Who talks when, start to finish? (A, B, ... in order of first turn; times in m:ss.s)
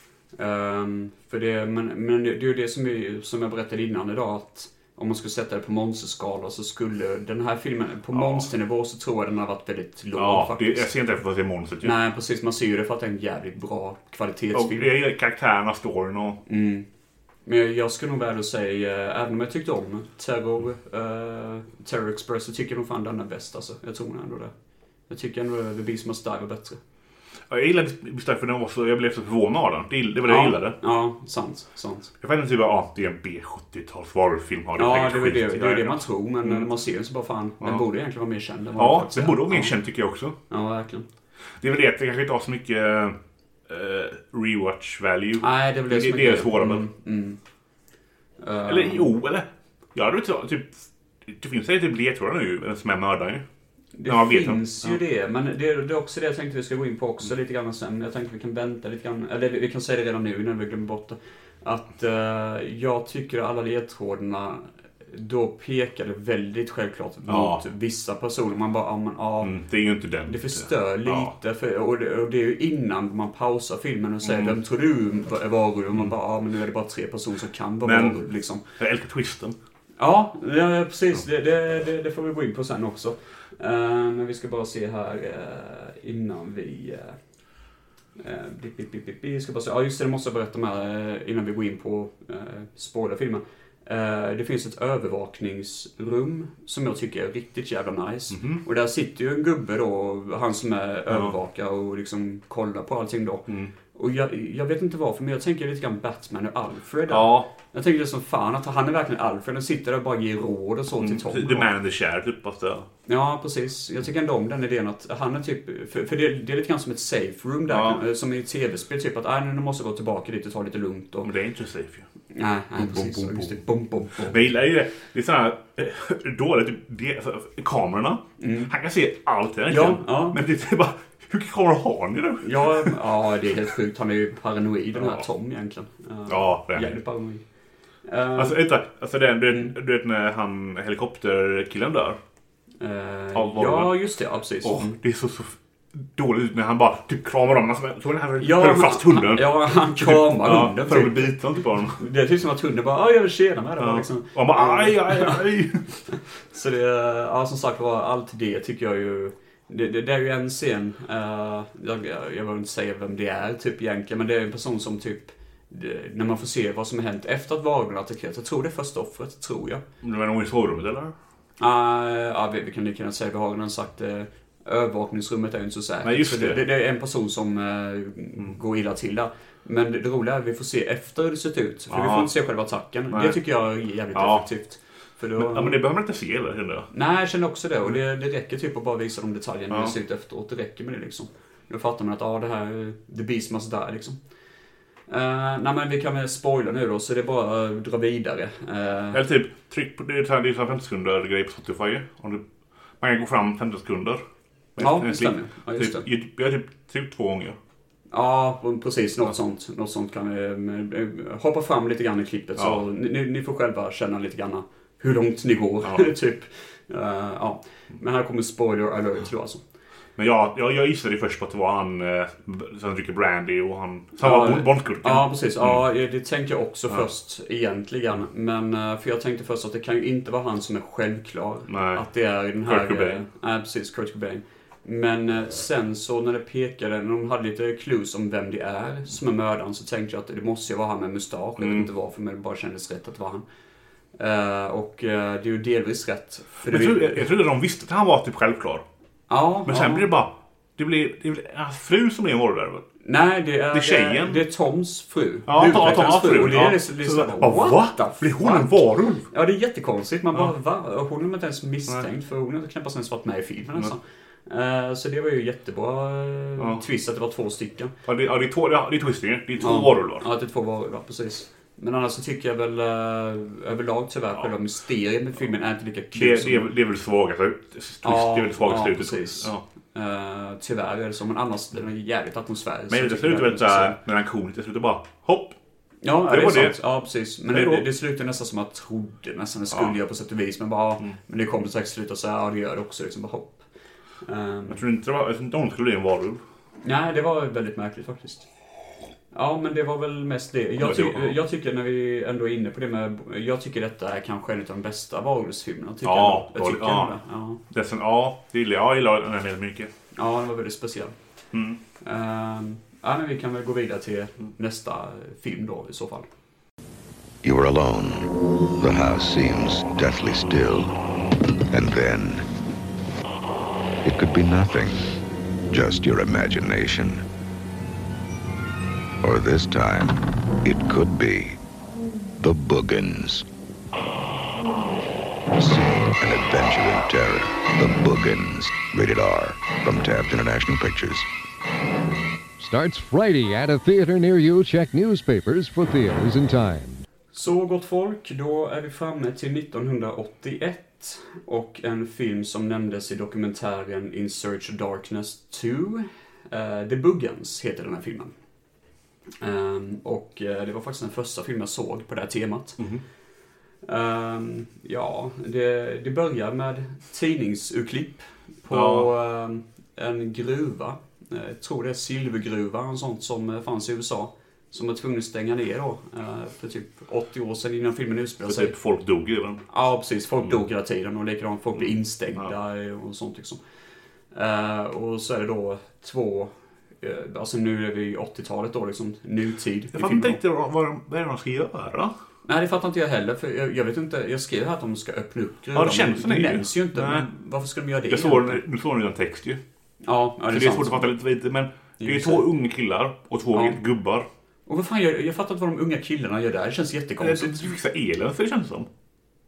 0:00.4-0:10.9 A
0:08.1-0:08.5 B
0:10.2-0:12.0 B
0:11.8-0:14.9 A
0:14.5-0:16.4 B
0:16.5-0:16.9 A
0:17.5-0:24.5 A
0:25.1-0:26.8 A
0:27.5-0:30.8 B
0:30.3-0:32.1 A
0:32.2-0:36.7 B
0:34.8-0:39.7 A
0:38.8-0:40.4 B
0:40.5-0:41.1 A
0:41.6-0:43.2 B
0:43.7-0:46.8 B
0:45.4-0:47.4 A
0:48.4-0:49.1 A
0:48.7-0:53.4 B
0:54.0-1:09.6 A
0:54.1-0:55.0 B
1:07.3-1:07.6 B
1:09.4-1:11.3 B
1:10.3-1:18.6 A
1:14.2-1:14.5 B
1:17.8-1:18.2 B
1:18.8-1:19.6 B
1:20.0-1:27.2 A
1:28.2-1:51.7 A
1:38.3-1:38.6 B
1:47.1-1:47.5 B
1:51.0-1:52.9 B
1:53.1-2:01.3 A
1:57.7-1:58.0 B
2:01.2-2:02.1 B
2:02.3-2:04.4 A
2:02.8-2:03.6 B
2:04.3-2:13.0 B
2:08.4-2:08.7 A
2:09.7-2:10.4 A
2:12.4-2:17.4 A
2:15.0-2:15.2 B
2:16.3-2:17.0 B
2:18.1-2:18.6 A
2:18.4-2:22.2 B
2:22.8-2:25.0 A
2:23.4-2:24.0 B
2:24.6-2:32.0 B
2:28.4-2:31.3 A
2:32.0-2:35.4 A
2:33.8-2:35.8 B
2:36.1-2:49.8 A
2:50.0-2:51.1 B
2:51.6-3:05.8 A
2:56.0-2:56.6 B
3:01.9-3:02.3 B
3:03.1-3:03.4 B
3:04.1-3:04.5 B
3:05.4-3:06.9 B
3:06.9-3:14.2 A
3:15.1-3:19.2 A
3:19.1-3:22.4 B
3:23.0-3:24.2 B
3:24.8-3:27.6 B
3:24.8-3:26.0 A
3:28.1-3:39.6 A
3:40.2-3:45.8 B
3:44.2-4:03.4 A
3:51.7-3:52.0 B
3:52.7-3:53.3 B
4:01.6-4:01.9 B
4:04.2-4:07.3 A
4:06.7-4:08.8 B
4:09.3-4:10.1 A
4:09.7-4:12.8 B
4:13.0-4:18.8 A
4:13.7-4:14.4 B
4:15.5-4:19.3 B
4:19.3-4:27.9 A
4:26.6-4:26.8 B
4:28.1-4:30.2 B
4:29.6-4:36.7 A
4:36.1-4:39.6 B
4:38.0-4:44.0 A
4:42.9-4:45.6 B
4:46.0-4:53.6 A
4:46.3-4:46.8 B
4:47.5-4:47.9 B
4:49.7-4:50.0 B
4:54.2-4:54.8 A
4:54.7-4:56.4 B
4:56.8-4:58.5 A
4:59.3-5:07.6 A
5:00.8-5:01.4 B
5:06.0-5:07.2 B
5:07.7-5:09.9 B
5:10.2-5:11.2 A
5:11.5-5:11.8 B
5:12.0-5:16.3 A
5:17.4-5:20.9 C
5:21.7-5:22.4 C
5:24.0-5:25.1 C
5:25.7-5:27.2 C
5:29.2-5:31.6 C
5:32.4-5:33.4 C
5:35.5-5:41.3 C
5:42.6-5:47.0 D
5:47.3-5:58.3 A
5:59.4-6:02.8 A
6:03.8-6:18.7 A
6:08.7-6:09.1 B
6:18.5-6:19.6 B
6:19.7-6:23.6 A
6:24.3-6:30.4 A
6:29.9-6:32.1 B
6:32.5-6:38.6 A
6:35.7-6:37.3 B
6:38.1-6:39.6 B
6:40.0-6:41.1 A
6:40.5-6:44.3 B
6:42.0-6:42.4 A
6:44.7-6:47.7 A
6:47.2-6:48.9 B